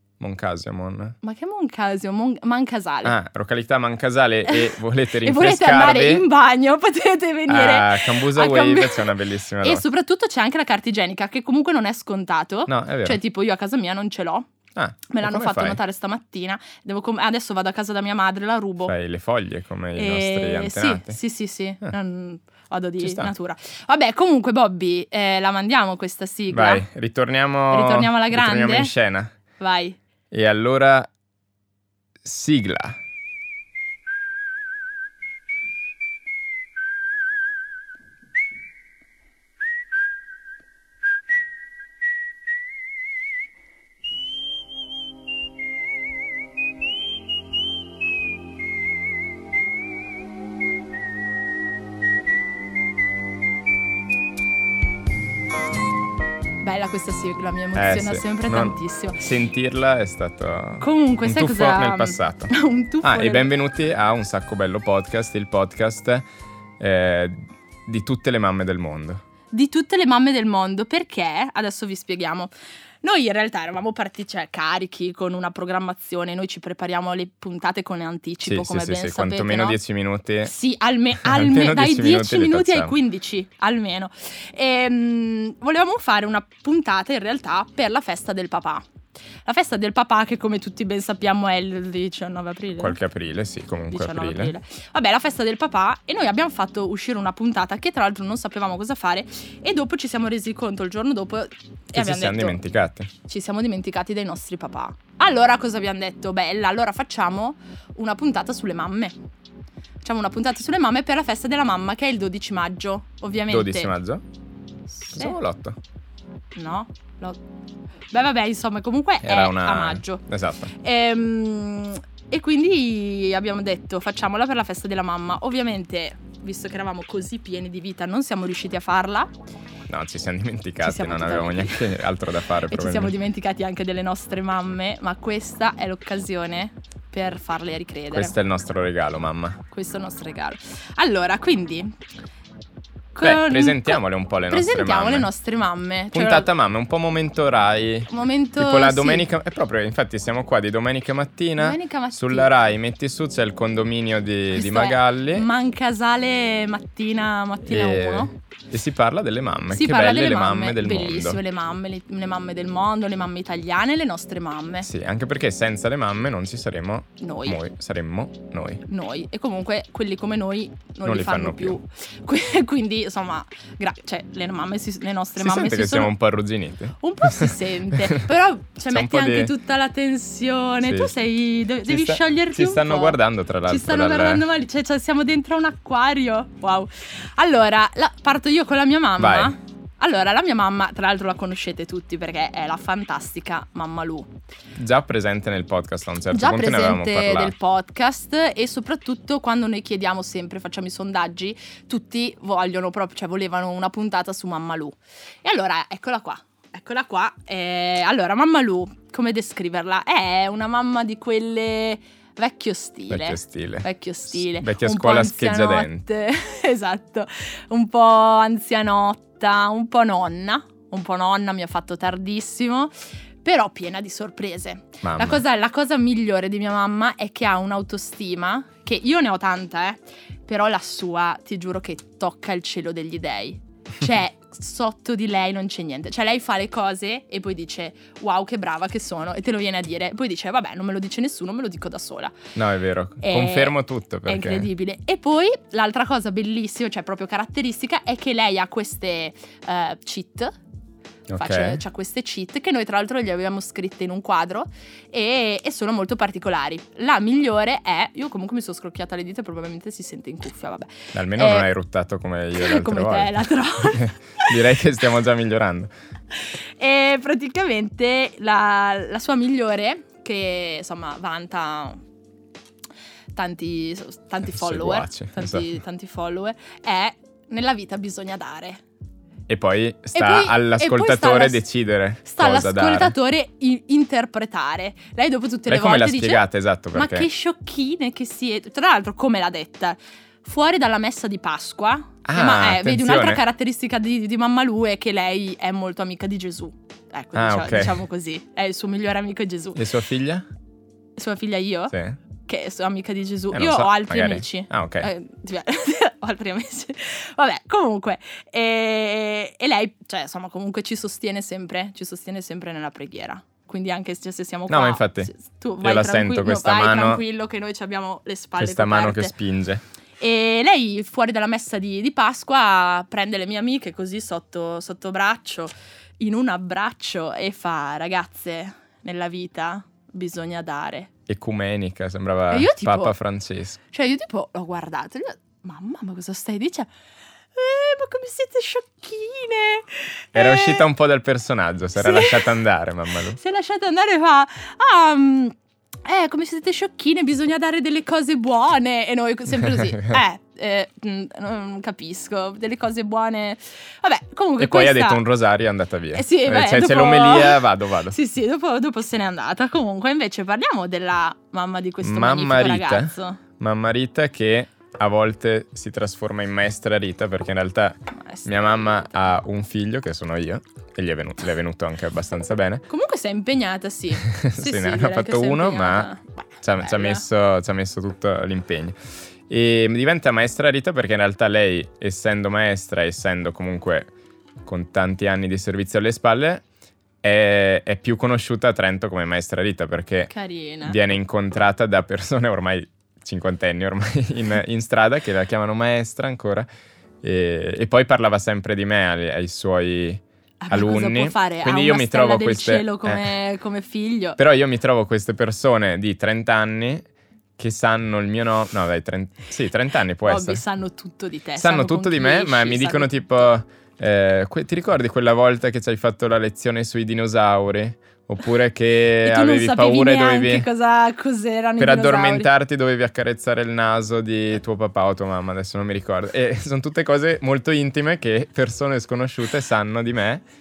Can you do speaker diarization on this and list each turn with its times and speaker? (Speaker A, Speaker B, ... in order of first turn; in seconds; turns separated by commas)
Speaker A: 0.2-1.1, Speaker B: 1.2-3.1, Speaker A: 3.0-6.2, Speaker B: 4.5-14.5, Speaker A: 7.5-9.8, Speaker A: 12.7-13.2, Speaker A: 14.8-15.8, Speaker B: 15.1-18.9, Speaker A: 18.8-21.2, Speaker B: 19.9-26.8, Speaker A: 23.0-23.3, Speaker A: 26.5-29.3, Speaker B: 27.7-28.9, Speaker B: 29.6-30.0, Speaker A: 30.3-31.1, Speaker A: 32.2-33.0, Speaker B: 56.6-59.2, Speaker A: 57.7-66.2, Speaker B: 60.8-63.5, Speaker A: 66.8-69.2, Speaker B: 69.5-72.5, Speaker B: 73.0-79.8, Speaker A: 78.4-80.5, Speaker B: 80.4-88.8, Speaker A: 81.2-82.9, Speaker B: 89.4-93.0, Speaker A: 92.8-94.5, Speaker B: 93.9-102.6, Speaker A: 101.9-103.1, Speaker B: 103.2-109.2, Speaker B: 110.0-113.9, Speaker A: 113.5-114.2, Speaker B: 115.0-115.4, Speaker A: 115.1-115.8, Speaker B: 116.5-117.4, Speaker B: 118.1-129.3, Speaker A: 119.2-120.7, Speaker A: 129.9-133.1, Speaker B: 130.8-132.0, Speaker B: 132.7-138.3, Speaker A: 138.1-139.6, Speaker B: 139.7-141.9, Speaker B: 143.1-146.5, Speaker A: 143.2-145.3, Speaker A: 146.1-155.5, Speaker B: 148.1-149.2, Speaker B: 151.6-152.5, Speaker B: 154.5-158.3, Speaker A: 157.7-161.4, Speaker B: 159.7-164.9, Speaker A: 164.8-168.8, Speaker B: 167.2-167.6, Speaker B: 168.9-176.1, Speaker A: 171.0-171.8, Speaker A: 175.4-178.3, Speaker B: 177.0-194.3, Speaker A: 178.9-179.5, Speaker A: 180.8-181.1, Speaker A: 181.8-184.4, Speaker A: 189.2-189.5, Speaker A: 194.8-197.5, Speaker B: 196.3-242.4, Speaker A: 213.1-216.0, Speaker A: 225.0-225.4, Speaker A: 242.5-244.7, Speaker B: 243.2-250.5, Speaker A: 251.3-251.8, Speaker B: 251.3-261.7, Speaker A: 261.1-265.9, Speaker B: 262.5-264.6, Speaker B: 266.3-272.0, Speaker B: 273.3-278.8, Speaker A: 274.4-275.7, Speaker A: 279.5-283.1, Speaker B: 280.1-281.6, Speaker B: 282.2-299.8, Speaker A: 285.7-287.3, Speaker A: 292.2-293.4, Speaker A: 297.3-298.0, Speaker A: 299.8-300.4, Speaker B: 301.2-319.3, Speaker A: 301.9-302.2, Speaker A: 303.5-305.1, Speaker A: 314.7-315.3, Speaker A: 315.8-317.2, Speaker A: 318.6-319.8, Speaker B: 320.2-331.1, Speaker A: 331.3-333.8, Speaker B: 332.5-333.1, Speaker B: 333.9-336.9, Speaker B: 337.5-340.9, Speaker A: 340.3-343.4, Speaker B: 341.9-342.6, Speaker B: 343.3-355.2, Speaker A: 349.7-350.2, Speaker A: 354.6-358.2, Speaker B: 356.1-363.4, Speaker A: 362.0-372.8, Speaker B: 368.1-368.5, Speaker B: 372.9-377.2, Speaker A: 374.2-379.0, Speaker A: 379.5-384.1, Speaker A: 384.6-386.6, Speaker A: 387.2-390.3, Speaker B: 390.3-391.0, Speaker A: 390.8-396.7, Speaker A: 397.2-403.3, Speaker B: 400.6-404.4, Speaker A: 404.4-410.6, Speaker B: 410.2-413.1, Speaker A: 411.6-420.7, Speaker B: 419.2-422.5, Speaker A: 421.8-430.4